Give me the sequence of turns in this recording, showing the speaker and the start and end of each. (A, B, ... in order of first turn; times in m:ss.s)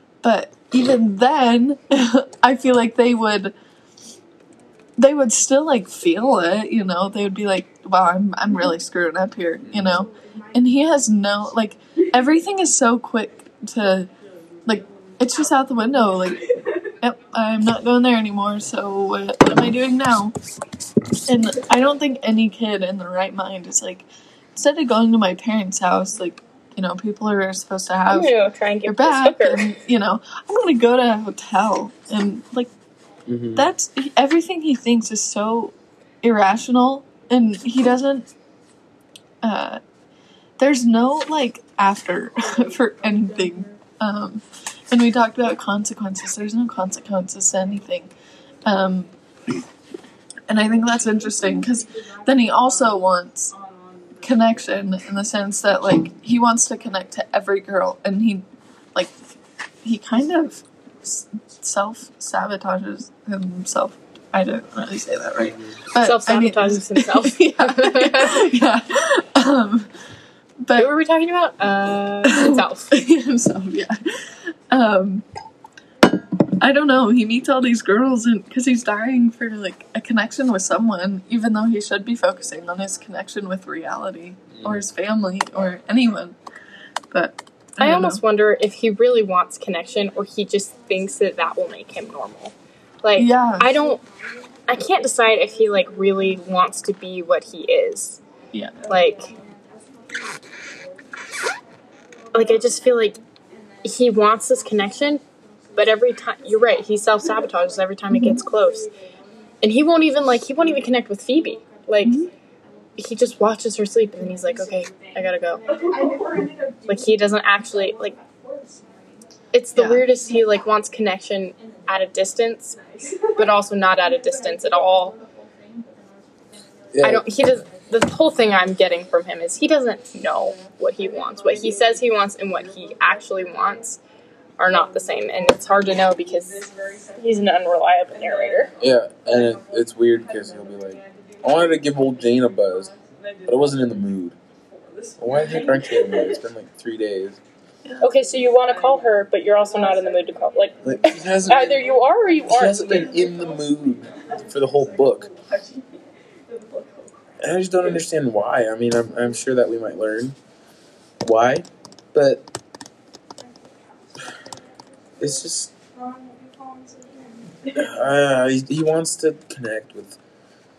0:00.2-0:03.5 A
0:05.0-0:14.1 A
0:09.6-0:10.1 B
0:14.7-0:20.4 A
0:21.3-0:28.3 A
0:28.1-0:29.6 C
0:28.9-0:32.7 A
0:33.3-0:33.7 B
0:33.6-0:38.3 A
0:39.4-0:39.8 A
0:40.6-0:48.1 A
0:48.7-0:49.1 A
0:50.5-0:53.6 A
0:54.2-0:59.2 A
0:59.8-1:09.9 A
1:05.4-1:05.8 B
1:06.0-1:08.6 C
1:10.6-1:10.9 A
1:10.8-1:12.9 C
1:12.2-1:15.3 A
1:16.6-1:26.4 A
1:24.5-1:24.8 B
1:27.1-1:28.2 A
1:27.8-1:34.0 C
1:33.2-1:33.7 A
1:34.7-1:38.2 C
1:38.5-1:38.8 A
1:38.9-1:39.3 C
1:42.3-1:43.2 C
1:43.8-1:45.2 C
1:45.8-1:48.9 C
1:48.1-1:48.4 A
1:49.6-1:52.2 C
1:52.0-1:52.3 A
1:53.0-1:58.2 C
1:59.5-2:05.2 C
1:59.8-2:00.0 A
2:06.9-2:07.3 B
2:07.0-2:14.0 C
2:14.6-2:18.7 C
2:18.8-2:22.9 B
2:23.4-2:24.4 B
2:25.2-2:27.4 B
2:28.0-2:30.9 C
2:30.8-2:31.9 B
2:31.4-2:33.1 C
2:32.5-2:35.3 B
2:37.4-2:40.4 B
2:41.2-2:42.5 B
2:45.2-2:45.7 B
2:47.7-2:50.2 B